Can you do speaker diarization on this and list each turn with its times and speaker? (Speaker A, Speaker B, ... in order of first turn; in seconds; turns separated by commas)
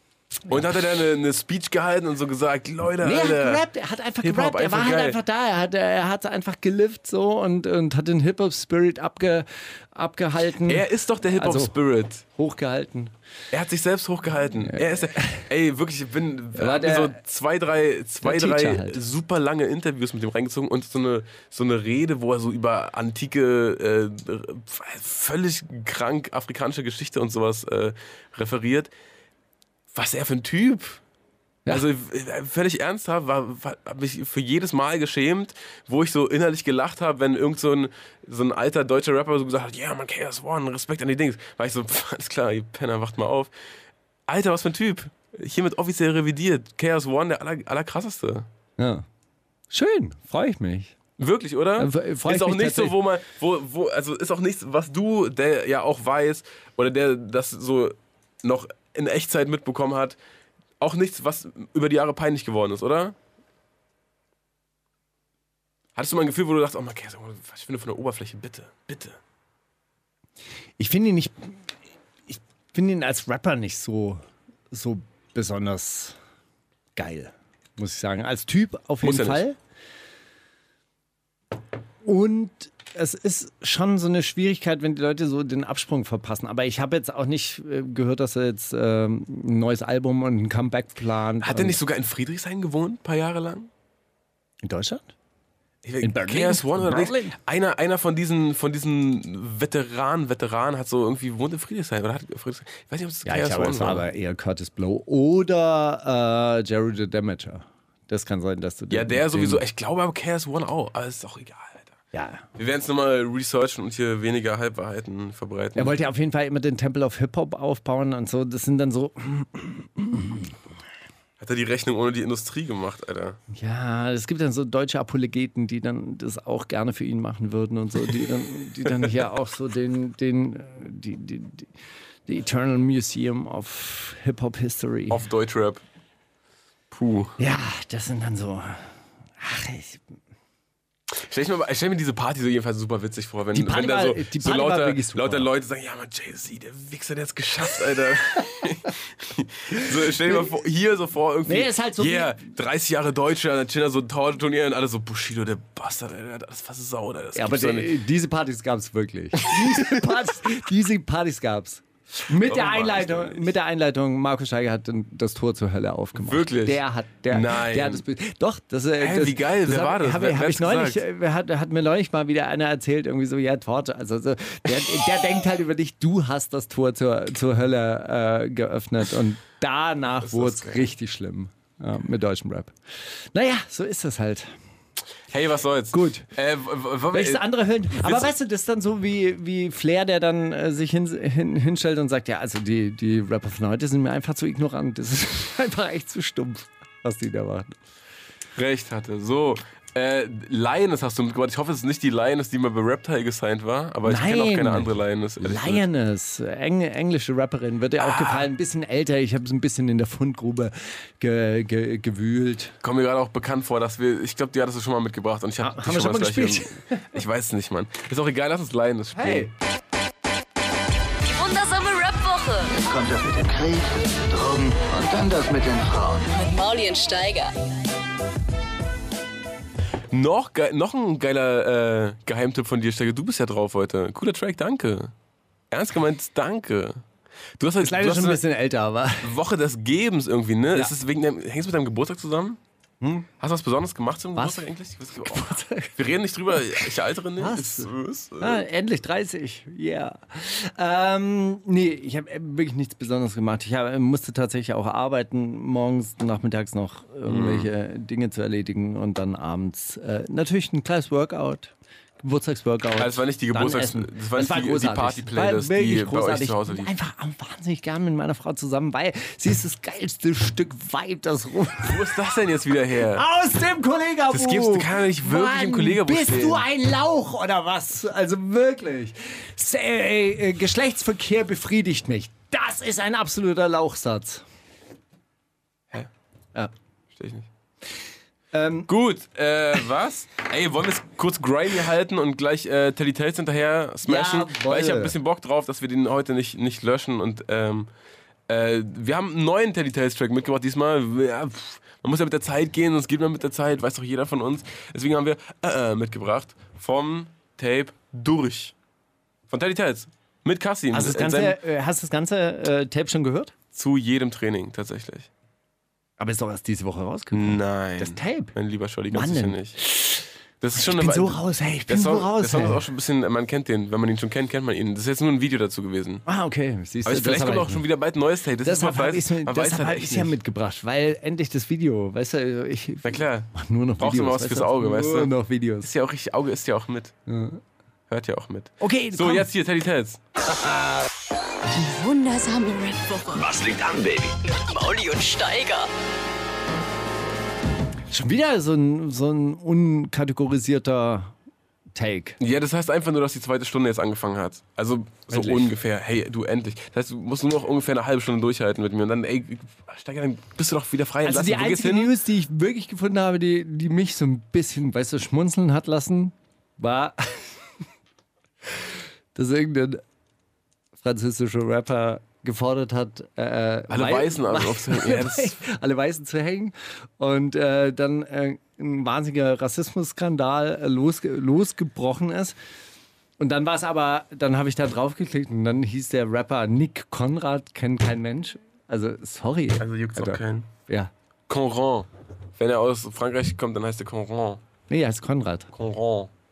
Speaker A: 0.5-3.6, Speaker B: 3.0-11.7, Speaker A: 4.2-5.2, Speaker A: 10.6-12.2, Speaker B: 12.3-13.1, Speaker A: 13.5-28.9, Speaker B: 14.7-15.5, Speaker B: 16.6-17.2, Speaker B: 18.2-19.0, Speaker A: 29.9-31.0, Speaker A: 31.7-43.5, Speaker A: 44.3-48.5, Speaker B: 48.8-49.0, Speaker B: 49.7-50.9, Speaker A: 51.2-60.2, Speaker B: 51.8-53.0, Speaker A: 60.8-63.1, Speaker A: 66.0-69.2, Speaker B: 70.8-71.5, Speaker B: 72.3-76.2, Speaker B: 77.0-79.6, Speaker A: 79.0-79.4, Speaker B: 82.0-91.8, Speaker A: 91.4-93.7, Speaker B: 94.6-95.1, Speaker A: 95.8-104.0, Speaker B: 96.0-97.3, Speaker B: 103.2-109.6, Speaker A: 108.9-111.9, Speaker B: 112.1-112.5, Speaker A: 112.5-116.0, Speaker B: 115.8-120.5, Speaker A: 121.4-123.4, Speaker B: 123.5-131.7, Speaker B: 132.3-135.2, Speaker A: 135.1-135.8, Speaker A: 136.9-137.3, Speaker B: 137.4-140.0, Speaker A: 141.1-158.0, Speaker B: 143.5-145.5, Speaker B: 151.4-152.3, Speaker B: 157.3-182.7, Speaker A: 159.4-160.3, Speaker A: 162.3-163.5, Speaker A: 166.2-168.0, Speaker A: 168.9-171.0, Speaker A: 180.2-180.9, Speaker B: 183.3-184.5, Speaker A: 185.3-188.3, Speaker B: 185.9-186.2, Speaker B: 187.1-197.7, Speaker A: 198.6-205.8, Speaker B: 204.0-212.8, Speaker A: 208.0-208.5, Speaker A: 212.8-219.5, Speaker B: 215.6-217.1, Speaker B: 219.1-219.5, Speaker C: 221.2-222.8, Speaker D: 222.8-226.3, Speaker C: 226.3-227.5, Speaker A: 230.1-235.1, Speaker A: 235.7-237.0, Speaker A: 237.6-238.4, Speaker B: 237.8-239.3, Speaker A: 239.2-242.6, Speaker B: 243.0-243.3, Speaker A: 243.4-248.6, Speaker B: 244.3-244.6, Speaker B: 245.2-246.0, Speaker B: 247.4-272.0, Speaker A: 257.2-257.7, Speaker A: 263.0-266.9, Speaker A: 271.8-273.2, Speaker B: 273.1-284.4, Speaker A: 274.3-276.6, Speaker A: 287.1-287.5, Speaker B: 288.5-288.9, Speaker A: 288.9-297.9, Speaker B: 294.0-295.1, Speaker A: 298.5-308.7, Speaker A: 309.5-311.6, Speaker B: 310.9-313.5, Speaker A: 313.7-315.3, Speaker B: 316.2-318.5, Speaker A: 317.3-319.8, Speaker B: 319.1-322.8, Speaker A: 320.6-326.2, Speaker B: 326.2-327.8, Speaker A: 327.0-330.4, Speaker B: 328.6-335.9, Speaker A: 333.0-337.1, Speaker B: 337.3-337.6, Speaker A: 338.1-340.2, Speaker B: 338.8-339.5, Speaker C: 341.7-343.6, Speaker D: 343.4-344.4, Speaker C: 344.4-345.9, Speaker B: 348.1-351.3, Speaker B: 351.9-352.4, Speaker A: 352.4-362.1, Speaker B: 355.3-355.7, Speaker B: 361.2-367.6, Speaker B: 369.3-370.0, Speaker B: 371.0-382.6, Speaker A: 373.9-375.6, Speaker B: 383.4-391.1, Speaker A: 389.8-390.7, Speaker A: 391.5-394.6, Speaker B: 394.9-395.7, Speaker A: 395.7-396.3